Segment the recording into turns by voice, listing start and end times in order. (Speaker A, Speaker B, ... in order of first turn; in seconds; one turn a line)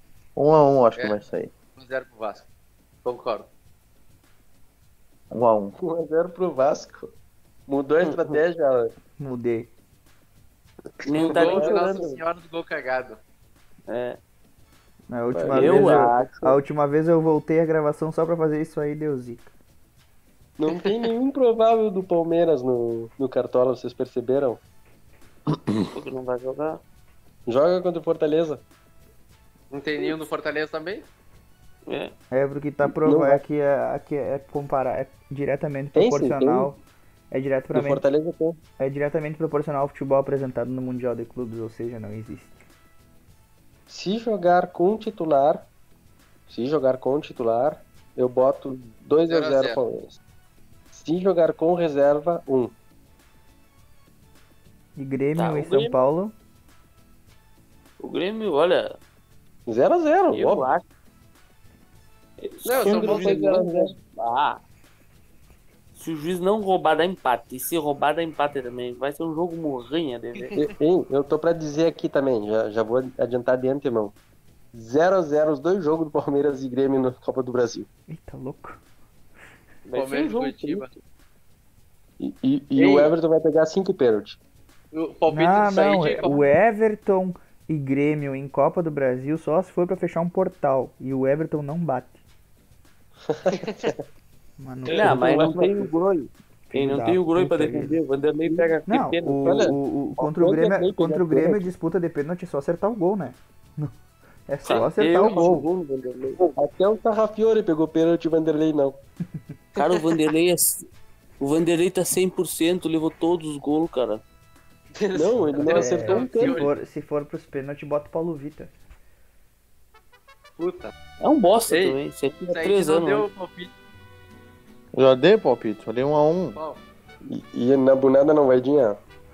Speaker A: 0.3-1.5
Speaker B: 1.8-2.5
Speaker B: 3.0-3.5
Speaker A: 5.3-5.8
Speaker C: 5.8-7.1
Speaker C: 7.7-8.9
Speaker D: 8.0-8.4
Speaker E: 9.2-9.7
Speaker D: 11.0-12.2
Speaker C: 11.1-11.8
Speaker B: 11.2-13.2
Speaker D: 13.9-14.2
Speaker E: 15.1-19.5
Speaker C: 15.3-16.2
Speaker D: 15.5-16.6
Speaker C: 20.6-24.6
Speaker D: 25.9-26.8
Speaker C: 27.5-28.6
Speaker B: 29.7-31.1
Speaker D: 31.9-32.1
Speaker E: 32.3-38.0
Speaker C: 32.8-33.4
Speaker C: 35.9-36.7
Speaker C: 37.7-38.6
Speaker E: 38.8-42.6
Speaker C: 43.9-45.7
Speaker C: 46.5-50.2
Speaker B: 49.3-49.8
Speaker C: 50.9-52.7
Speaker E: 55.0-56.3
Speaker D: 55.4-56.0
Speaker D: 58.0-59.0
Speaker C: 59.7-60.7
Speaker D: 60.3-60.8
Speaker D: 62.4-64.6
Speaker B: 62.6-63.5
Speaker C: 62.8-64.0
Speaker D: 65.9-70.5
Speaker B: 70.3-70.7
Speaker C: 70.5-74.1
Speaker C: 74.7-77.9
Speaker E: 78.1-78.8
Speaker D: 79.8-80.9
Speaker B: 79.9-80.9
Speaker C: 82.2-84.4
Speaker B: 82.8-83.1
Speaker B: 84.9-86.4
Speaker E: 85.3-92.2
Speaker C: 93.2-94.0
Speaker B: 93.5-93.9
Speaker E: 94.6-95.2
Speaker D: 94.9-99.7
Speaker C: 95.0-95.9
Speaker E: 96.7-98.0
Speaker E: 98.9-103.9
Speaker C: 99.4-101.7
Speaker E: 104.5-105.7
Speaker D: 104.6-106.4
Speaker B: 104.7-105.4
Speaker C: 106.5-109.0
Speaker D: 109.8-110.9
Speaker D: 111.4-114.2
Speaker B: 115.0-116.7
Speaker C: 115.1-116.6
Speaker E: 115.5-118.7
Speaker B: 120.6-120.9
Speaker D: 121.2-123.3
Speaker B: 121.7-123.7
Speaker A: 124.9-126.6
Speaker B: 126.5-126.8
Speaker C: 127.2-129.0